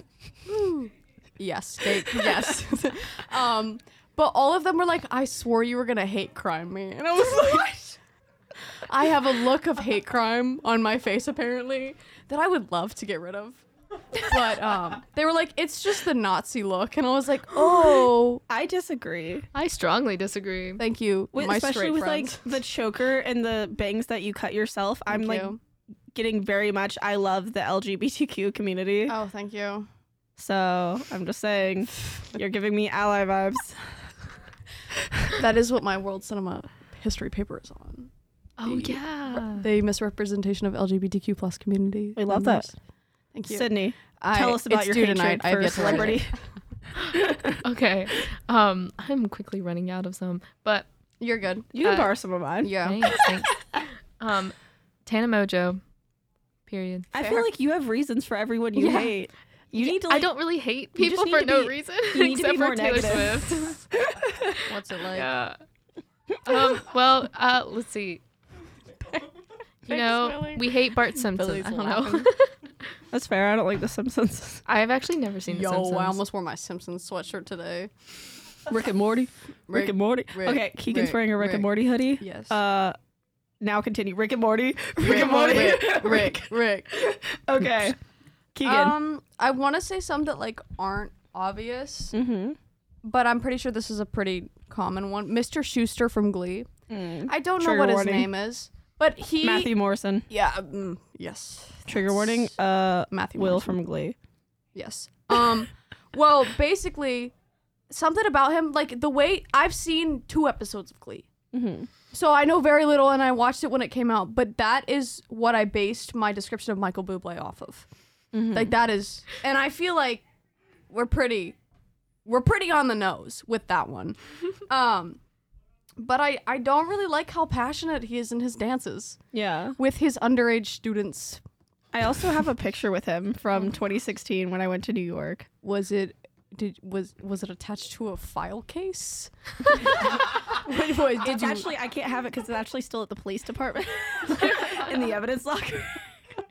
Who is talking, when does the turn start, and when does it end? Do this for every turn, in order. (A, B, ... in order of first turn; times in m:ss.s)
0:00.4-0:08.0 A
0:08.8-0:13.6 A
0:14.1-0:18.4 A
0:18.5-0:19.5 B
0:19.5-0:20.8 C
0:20.8-0:22.5 A
0:21.3-0:25.6 B
0:25.1-0:25.6 A
0:26.1-0:29.2 B
0:29.1-0:29.9 A
0:30.4-0:33.9 B
0:35.3-0:38.1 A
0:38.6-0:39.6 C
0:38.6-0:42.7 A
0:42.2-0:42.7 B
0:43.3-0:46.4 A
0:43.5-0:46.3 B
0:47.0-0:50.9 C
0:47.1-0:47.6 B
0:51.2-0:51.7 A
0:51.7-0:53.3 B
0:51.8-0:52.1 C
0:52.6-0:53.2 A
0:52.8-0:53.6 C
0:54.2-0:54.5 C
0:55.0-0:55.8 C
0:56.7-0:57.1 C
0:57.1-1:00.3 B
0:57.1-0:57.5 A
0:58.8-0:59.0 C
0:59.8-1:03.8 C
1:00.9-1:04.5 B
1:04.6-1:05.3 A
1:05.1-1:05.6 C
1:06.4-1:08.2 C
1:09.9-1:12.3 A
1:09.9-1:12.6 C
1:13.1-1:14.6 B
1:14.6-1:16.2 C
1:15.5-1:17.9 A
1:18.7-1:22.9 B
1:19.7-1:22.6 A
1:23.6-1:28.0 B
1:25.0-1:27.0 A
1:28.5-1:28.9 B
1:28.6-1:32.1 A
1:32.1-1:32.6 B
1:33.0-1:36.7 A
1:36.9-1:38.3 B
1:37.3-1:39.7 A
1:39.4-1:40.3 B
1:40.3-1:42.5 A
1:41.9-1:44.2 B
1:43.1-1:43.8 A
1:44.7-1:47.3 A
1:47.9-1:51.3 A
1:51.5-1:51.9 B
1:52.1-1:57.9 A
1:58.3-1:58.7 B
1:58.5-2:00.2 A
2:00.9-2:01.6 A
2:02.2-2:05.2 A
2:06.0-2:09.2 A
2:09.3-2:09.8 B
2:09.8-2:11.4 A
2:11.9-2:15.5 B
2:15.6-2:21.7 A
2:21.2-2:26.0 B